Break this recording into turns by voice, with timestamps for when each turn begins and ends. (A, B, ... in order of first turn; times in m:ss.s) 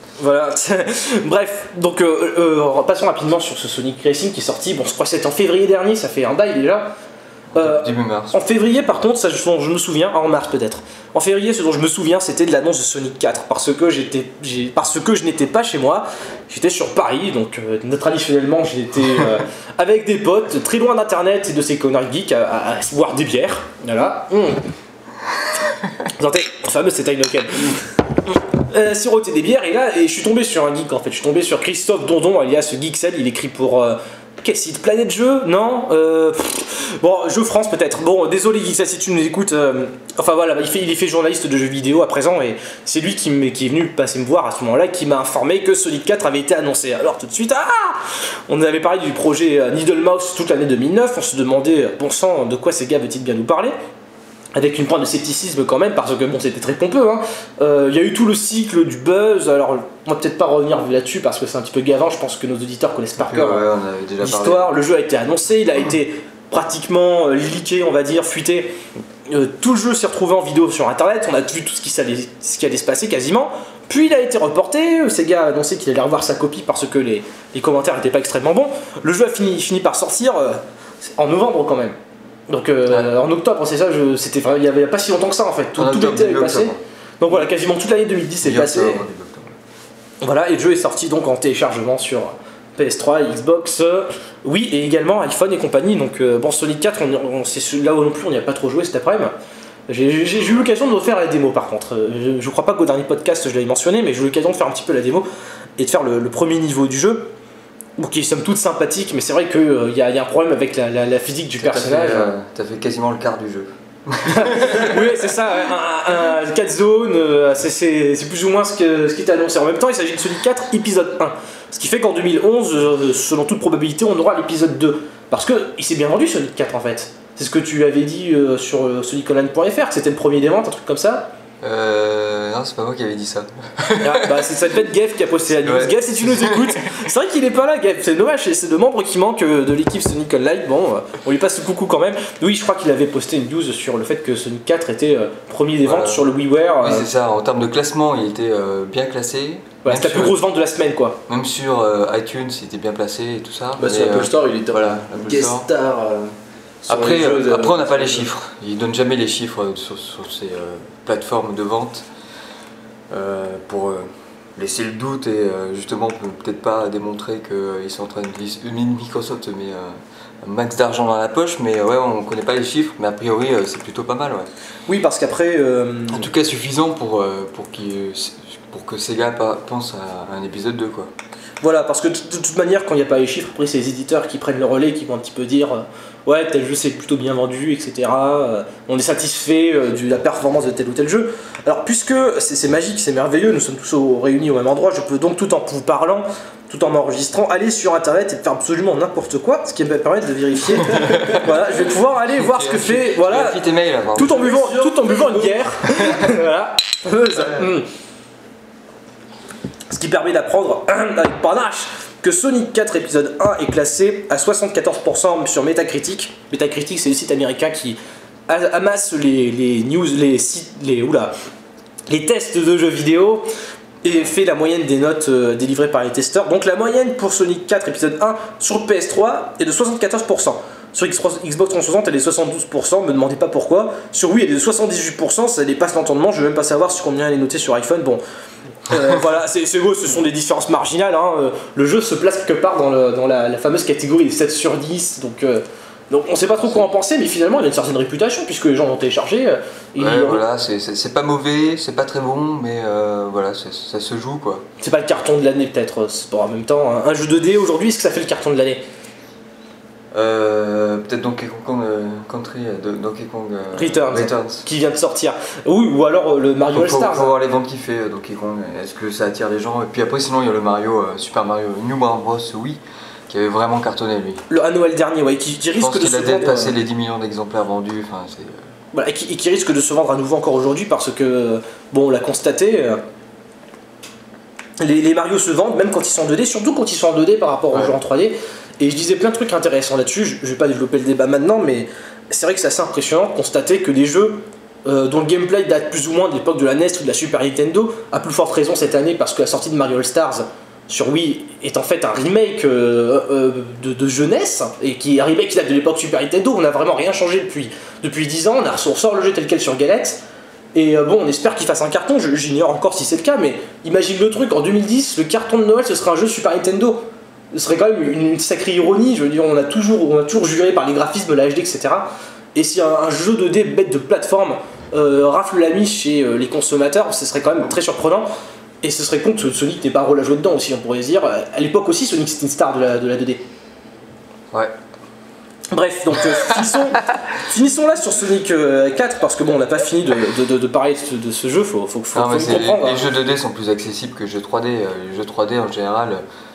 0:00.2-0:06.9 A
0:07.5-0:08.4 B
0:07.6-0:24.6 A
0:26.1-0:27.8 A
0:28.6-0:53.7 A
0:54.5-1:03.6 A
1:03.2-1:04.7 B
1:04.2-1:08.8 A
1:09.3-1:22.0 A
1:22.5-1:29.0 A
1:25.8-1:26.8 B
1:28.4-1:29.6 B
1:30.2-1:39.3 A
1:39.9-1:45.2 A
1:45.8-1:47.3 A
1:48.0-1:52.3 A
1:51.6-1:55.3 B
1:54.2-2:11.3 A
2:11.6-2:14.5 B
2:14.0-2:27.1 A
2:15.6-2:16.8 B
2:25.8-2:26.3 B
2:26.8-2:30.4 B
2:29.8-2:31.2 A
2:31.3-2:35.6 B
2:33.8-2:38.3 C
2:36.9-2:42.1 B
2:43.1-2:54.5 B
2:54.9-2:56.3 A
2:56.1-3:01.1 B
3:01.6-3:23.6 A
3:21.0-3:21.4 B
3:22.2-3:25.1 B
3:24.1-3:27.9 A
3:25.8-3:26.4 B
3:27.3-3:27.7 B
3:29.9-3:41.3 A
3:42.1-3:43.5 A
3:44.0-3:58.2 A
3:58.9-4:10.4 A
4:06.6-4:06.8 B
4:10.0-4:14.7 B
4:14.8-4:18.8 A
4:20.1-4:24.6 B
4:23.8-4:27.3 A
4:26.7-4:34.4 B
4:34.5-4:36.7 A
4:35.8-4:38.6 B
4:38.9-4:43.0 A
4:44.8-5:10.2 A
5:10.7-5:28.3 A
5:28.8-5:33.4 A
5:35.7-5:43.1 A
5:42.1-5:46.2 B